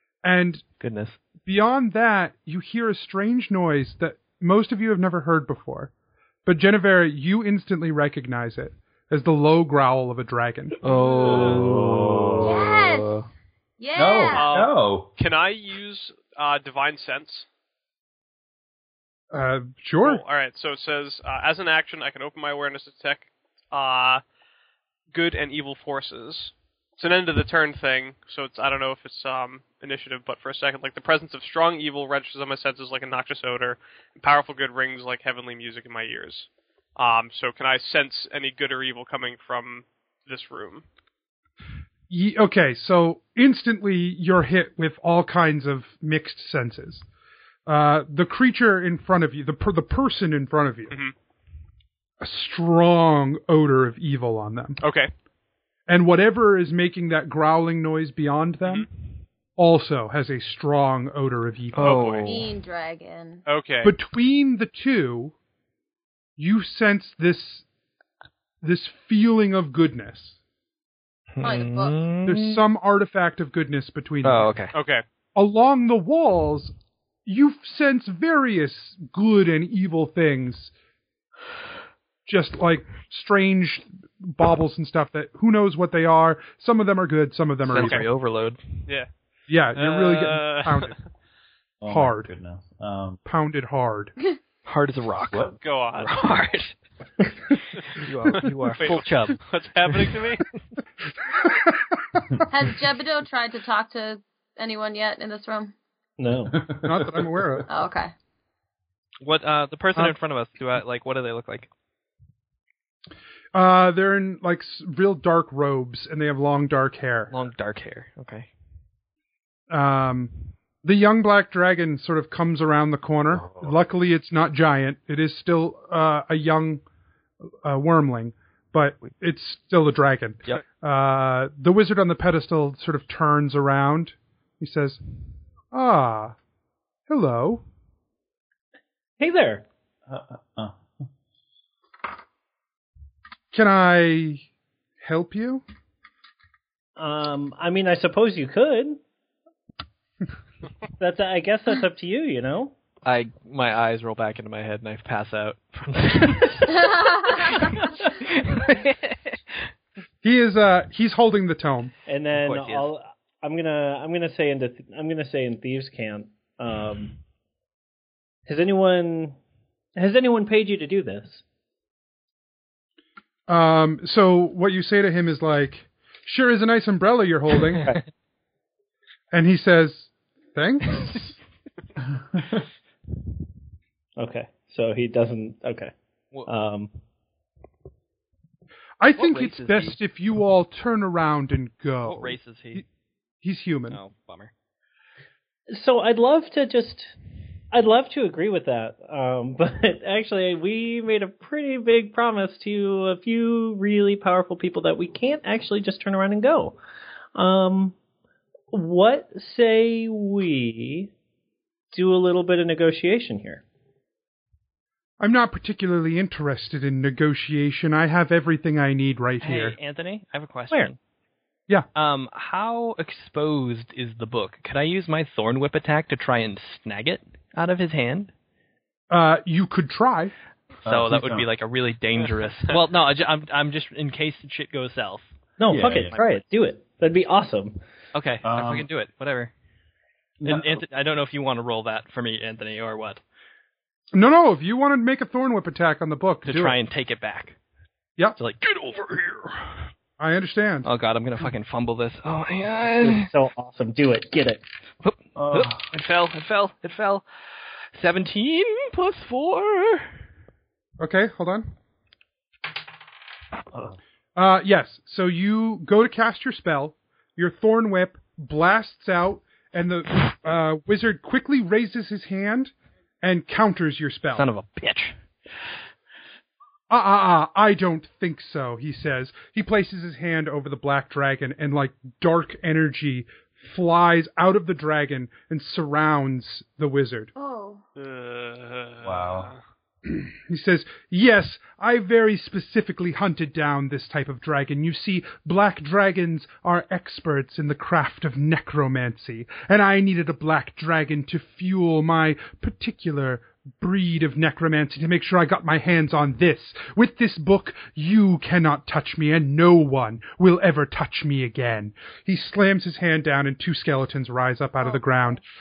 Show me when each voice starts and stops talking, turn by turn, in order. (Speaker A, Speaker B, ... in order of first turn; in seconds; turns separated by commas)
Speaker A: 0.2-0.6, Speaker B: 0.8-1.2, Speaker A: 1.4-5.9, Speaker A: 6.4-10.8, Speaker B: 10.8-13.3, Speaker C: 11.2-12.7, Speaker D: 12.4-13.2, Speaker D: 13.8-14.5, Speaker C: 13.9-15.1, Speaker E: 14.3-17.4, Speaker A: 19.3-20.2, Speaker E: 20.0-24.2, Speaker E: 25.1-40.8, Speaker A: 42.1-47.0, Speaker A: 47.6-51.0, Speaker A: 52.2-54.8, Speaker E: 54.8-55.1, Speaker A: 55.9-58.9, Speaker A: 59.6-62.0, Speaker B: 61.7-62.6, Speaker E: 61.8-62.4, Speaker D: 62.2-63.4, Speaker E: 63.5-63.9, Speaker A: 63.8-65.3, Speaker A: 66.4-67.6, Speaker A: 68.6-70.3, Speaker B: 71.3-72.6, Speaker D: 71.4-72.0, Speaker A: 72.2-74.5, Speaker B: 74.2-74.7, Speaker E: 74.7-75.0, Speaker A: 75.3-76.7, Speaker A: 77.2-80.7, Speaker A: 82.2-88.0, Speaker B: 87.6-88.8, Speaker A: 89.5-90.9, Speaker E: 89.7-91.0, Speaker C: 91.8-93.2, Speaker A: 91.9-92.3, Speaker A: 93.2-94.1, Speaker B: 94.6-96.7, Speaker E: 95.6-96.2, Speaker B: 97.5-100.3, Speaker E: 98.3-100.4, Speaker D: 102.5-105.7, Speaker F: 106.2-106.7, Speaker C: 106.5-107.4, Speaker A: 106.8-107.7, Speaker D: 107.7-108.1, Speaker B: 109.2-111.7, Speaker A: 113.5-117.3, Speaker B: 117.3-118.5, Speaker A: 119.7-126.8, Speaker C: 123.3-123.7, Speaker A: 127.6-135.0, Speaker A: 135.7-136.3, Speaker A: 137.1-137.6, Speaker F: 139.2-139.6, Speaker C: 140.1-140.8, Speaker A: 143.5-144.4, Speaker A: 145.0-145.6, Speaker F: 147.0-149.0, Speaker F: 151.0-152.7, Speaker B: 153.0-159.7, Speaker D: 156.8-157.7, Speaker A: 160.2-161.9, Speaker F: 162.1-167.2, Speaker B: 162.3-162.9, Speaker F: 168.5-169.4, Speaker F: 169.9-171.4, Speaker A: 173.5-177.9, Speaker A: 179.3-181.3, Speaker F: 184.2-185.9, Speaker F: 186.5-186.9, Speaker A: 189.0-192.8, Speaker B: 189.2-190.0, Speaker B: 192.0-192.8, Speaker A: 193.4-194.0, Speaker B: 193.9-194.5, Speaker F: 195.7-197.1, Speaker F: 197.7-206.8, Speaker F: 207.3-207.9, Speaker F: 208.7-211.1, Speaker F: 211.9-213.6, Speaker A: 215.2-219.8, Speaker B: 219.4-221.0, Speaker B: 221.9-228.3, Speaker A: 229.1-230.3, Speaker C: 230.8-231.5, Speaker B: 230.8-236.4, Speaker F: 235.6-237.8, Speaker C: 235.7-236.2, Speaker B: 238.1-239.5, Speaker C: 238.4-238.9, Speaker C: 240.4-240.8, Speaker B: 240.4-243.2, Speaker A: 244.1-246.8, Speaker B: 246.4-247.6, Speaker B: 248.4-249.8, Speaker A: 250.2-250.9, Speaker B: 250.8-253.3, Speaker F: 253.0-254.6, Speaker B: 255.0-257.2, Speaker C: 255.3-255.9, Speaker B: 257.9-260.1, Speaker A: 261.0-261.7, Speaker C: 263.7-264.0, Speaker A: 264.4-274.5, Speaker B: 274.3-275.7, Speaker A: 276.9-287.3, Speaker D: 287.4-287.8, Speaker E: 288.0-289.6, Speaker C: 289.0-289.5, Speaker A: 290.1-315.4, Speaker D: 314.8-315.4